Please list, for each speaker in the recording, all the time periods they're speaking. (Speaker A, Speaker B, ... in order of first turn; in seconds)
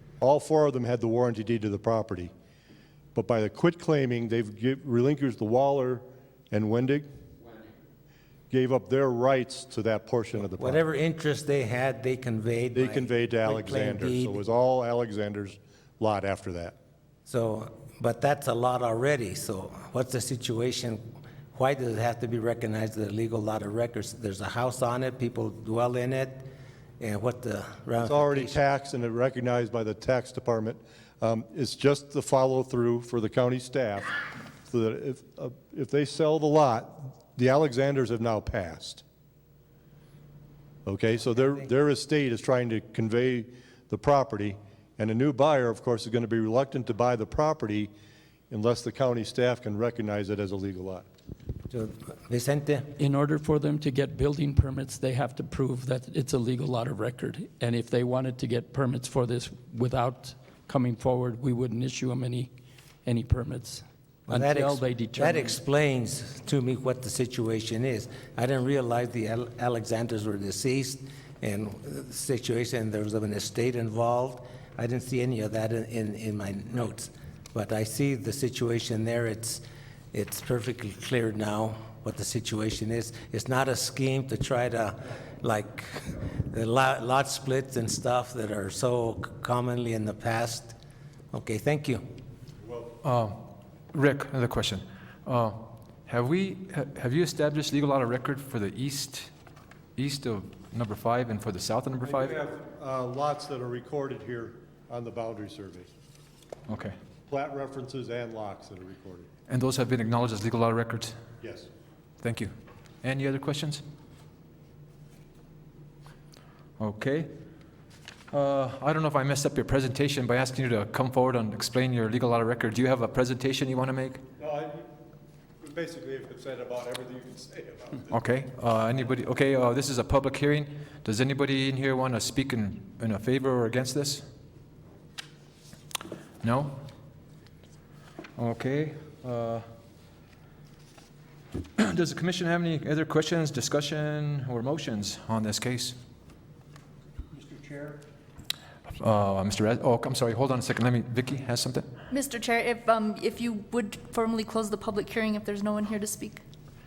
Speaker A: 0.2-2.3, 3.1-7.0, 8.5-10.8, 12.7-16.8, 28.0-39.0, 40.9-47.9, 48.5-51.0, 92.7-92.9, 102.0-105.9, 107.3-109.3, 111.4-111.7, 124.4-124.9, 125.6-128.1
Speaker B: 10.5-14.4, 17.3-21.0, 21.5-26.5, 27.0-28.6, 51.7-52.9, 64.3-90.8, 91.3-92.0
Speaker C: 53.0-62.5, 63.0-65.6
Speaker D: 93.0-99.3, 100.0-102.4, 106.7-106.9, 109.5-111.2, 112.2-112.5, 113.0-113.8, 116.8-117.3, 118.3-124.2, 128.1-134.2, 136.4-136.8, 138.3-139.6, 141.8-146.0, 149.0-151.9
Speaker E: 152.1-156.4